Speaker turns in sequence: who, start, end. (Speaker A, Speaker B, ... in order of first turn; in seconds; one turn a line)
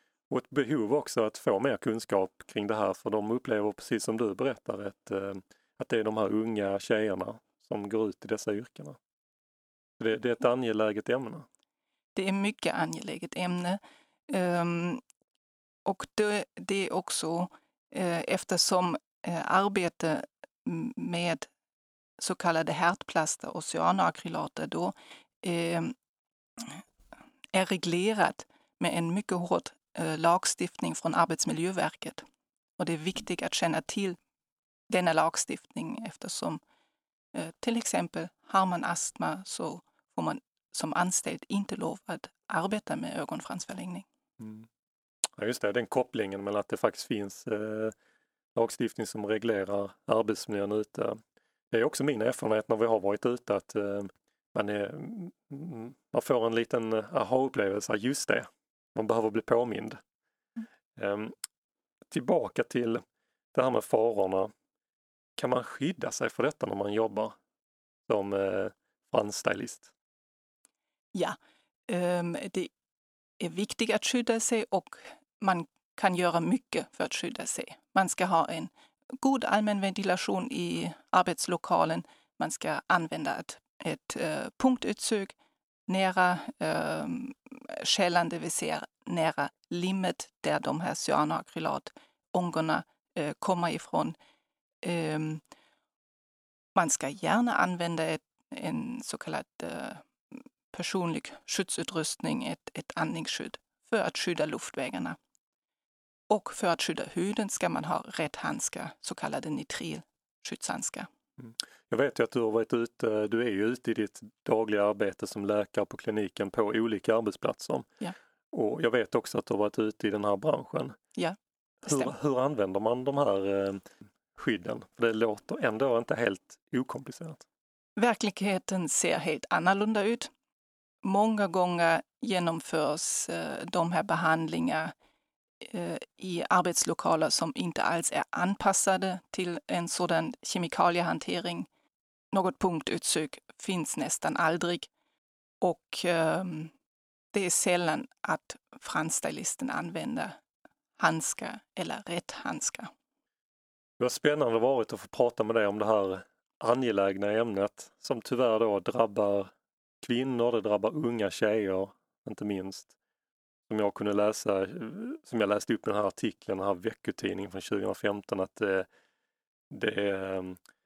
Speaker A: 0.3-9.0
Speaker A: 10.0-11.5
Speaker B: 12.2-15.0
Speaker B: 15.8-21.5
Speaker B: 22.2-25.9
Speaker B: 26.6-26.8
Speaker B: 27.5-32.2
Speaker B: 32.8-34.2
Speaker B: 34.9-36.6
Speaker B: 37.3-44.1
Speaker A: 44.4-44.7
Speaker A: 45.4-47.9
Speaker A: 48.6-51.2
Speaker A: 51.7-60.0
Speaker A: 61.0-61.3
Speaker A: 62.1-63.0
Speaker A: 63.5-64.5
Speaker A: 65.4-67.4
Speaker A: 68.1-69.9
Speaker B: 71.9-72.7
Speaker B: 73.4-85.3
Speaker B: 85.9-94.2
Speaker B: 94.8-95.4
Speaker B: 96.8-105.2
Speaker B: 106.3-111.1
Speaker A: 111.4-117.9
Speaker A: 118.5-121.0
Speaker B: 121.2-122.1
Speaker A: 121.9-127.4
Speaker B: 128.0-130.3
Speaker B: 131.0-134.9
Speaker B: 135.6-141.7
Speaker B: 142.3-144.9
Speaker B: 145.6-146.7
Speaker B: 147.3-150.4
Speaker B: 151.0-152.9
Speaker A: 154.0-159.5
Speaker A: 160.0-162.9
Speaker A: 163.7-168.9
Speaker A: 169.7-170.6